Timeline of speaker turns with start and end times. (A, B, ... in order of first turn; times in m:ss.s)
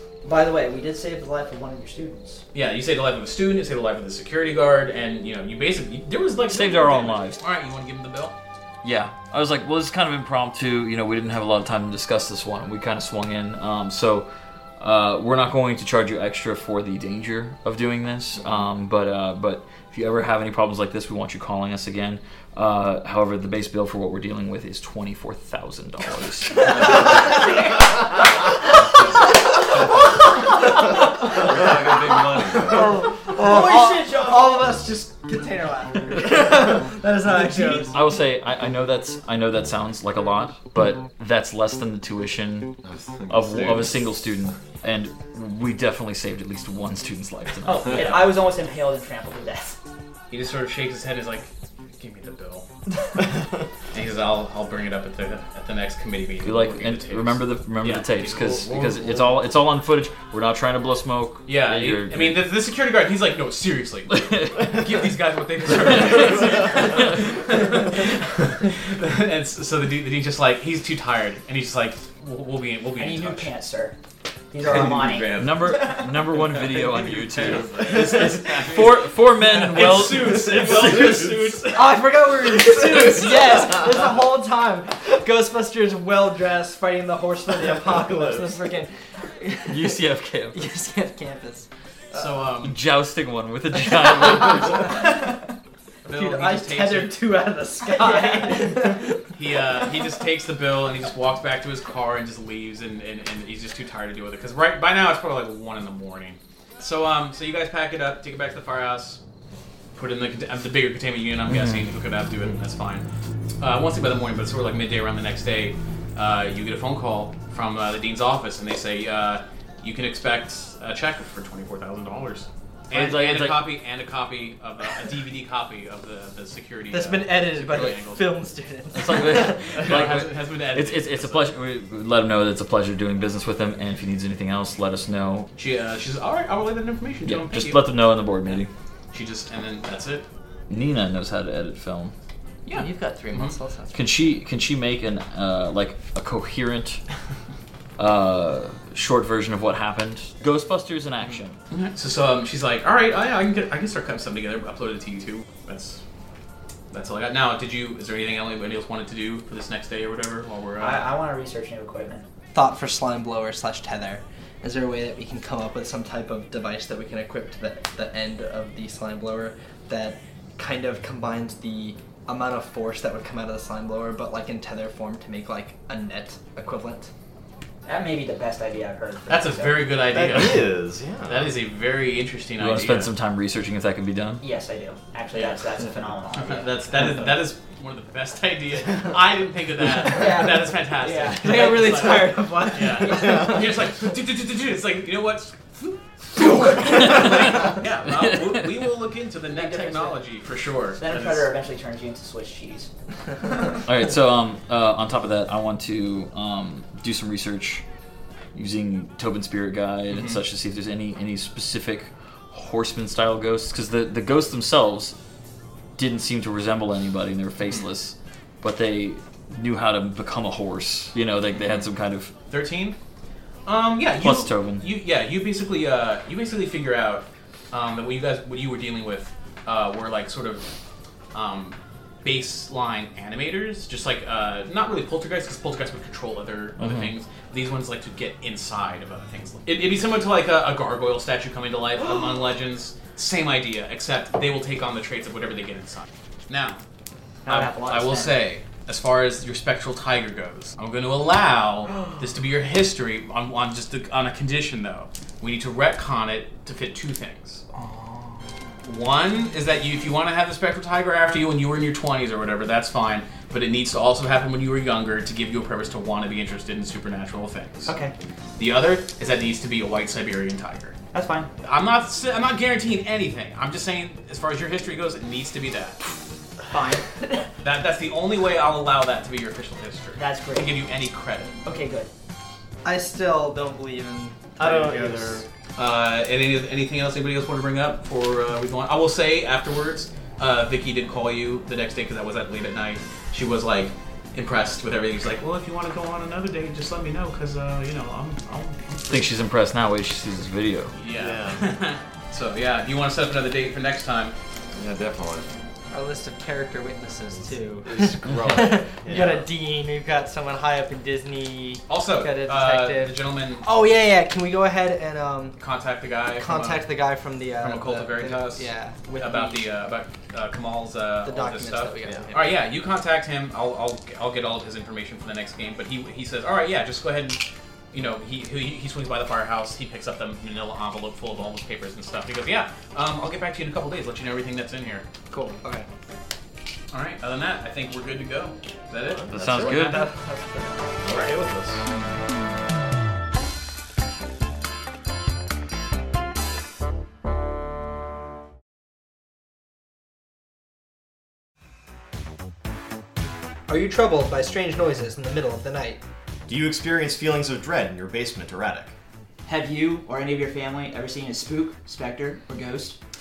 0:00.2-0:02.4 A
0:02.5-0:08.3 B
0:06.5-0:07.4 C
0:08.8-0:26.8 C
0:31.3-0:33.0 D
0:32.7-0:38.0 E
0:33.2-0:34.7 A
0:37.9-0:48.2 C
0:42.8-0:44.1 D
0:47.6-0:49.8 A
0:47.9-0:48.3 B
0:50.3-0:52.7 B
0:53.9-0:59.2 B
0:56.4-1:02.5 C
1:01.4-1:13.5 B
1:04.1-1:04.8 C
1:05.7-1:07.2 C
1:13.0-1:13.9 A
1:14.5-1:16.3 A
1:14.6-1:15.8 D
1:15.4-1:21.6 C
1:16.4-1:22.0 B
1:17.3-1:18.3 D
1:21.7-1:30.0 E
1:27.8-1:28.5 F
1:29.7-1:30.7 C
1:30.5-1:31.7 E
1:32.1-1:32.8 B
1:32.6-1:35.0 C
1:35.0-1:35.3 A
1:36.0-1:37.2 B
1:36.1-1:39.2 E
1:37.8-1:39.0 A
1:39.3-1:49.2 B
1:49.9-1:53.0 B
1:51.5-1:51.9 C
1:53.6-2:08.3 B
2:02.9-2:03.6 C
2:06.9-2:10.0 E
2:08.9-2:15.5 C
2:09.1-2:11.5 B
2:15.6-2:17.9 B
2:17.2-2:18.7 C
2:19.1-2:20.2 B
2:20.7-2:22.1 C
2:22.6-2:23.5 B
2:22.7-2:24.2 E
2:23.9-2:27.0 C
2:28.0-2:31.6 C
2:31.3-2:36.0 B
2:36.9-2:41.1 B
2:40.8-2:42.3 A
2:42.5-2:57.1 E
2:57.8-2:59.9 A
2:59.3-3:03.1 B
3:00.1-3:01.5 F
3:02.6-3:04.4 C
3:04.4-3:06.8 A
3:05.3-3:05.6 B
3:06.3-3:21.5 B
3:10.0-3:12.3 A
3:11.4-3:13.6 E
3:13.0-3:13.6 A
3:17.0-3:18.7 C
3:19.5-3:20.2 A
3:21.0-3:22.9 A
3:23.4-3:23.7 A
3:23.8-3:27.8 C
3:28.5-3:35.2 C
3:30.1-3:30.4 B
3:36.0-3:42.3 C
3:37.6-3:37.9 B
3:41.5-3:41.9 B
3:42.5-3:43.0 B
3:43.6-3:50.7 B
3:44.2-3:44.8 C
3:51.3-4:06.8 B
3:56.8-3:57.1 C
4:07.4-4:08.4 A
4:07.5-4:17.6 B
4:17.8-4:18.3 A
4:18.8-4:27.9 B
4:27.8-4:28.1 A
4:28.6-4:31.0 B
4:31.1-4:31.5 A
4:31.6-4:36.0 B
4:36.7-4:37.5 A
4:37.6-4:41.6 B
4:40.2-4:40.8 A
4:41.6-4:42.1 A
4:42.8-4:45.4 E
4:44.6-4:45.4 F
4:45.8-4:59.4 B
4:59.1-5:01.0 C
5:00.9-5:04.3 B
5:01.1-5:01.6 F
5:04.7-5:05.5 D
5:05.9-5:15.6 E
5:07.8-5:08.8 D
5:08.3-5:08.6 C
5:09.0-5:09.4 F
5:11.9-5:13.7 B
5:15.6-5:16.9 B
5:16.3-5:19.7 E
5:17.6-5:35.0 B
5:21.2-5:22.6 E
5:22.0-5:22.3 F
5:35.3-5:35.9 E
5:36.9-5:40.0 B
5:39.0-5:40.0 F
5:39.3-5:40.1 C
5:39.6-5:41.0 E
5:41.0-5:41.8 F
5:53.7-5:56.0 E
5:56.5-5:58.9 F
5:59.4-6:03.0 A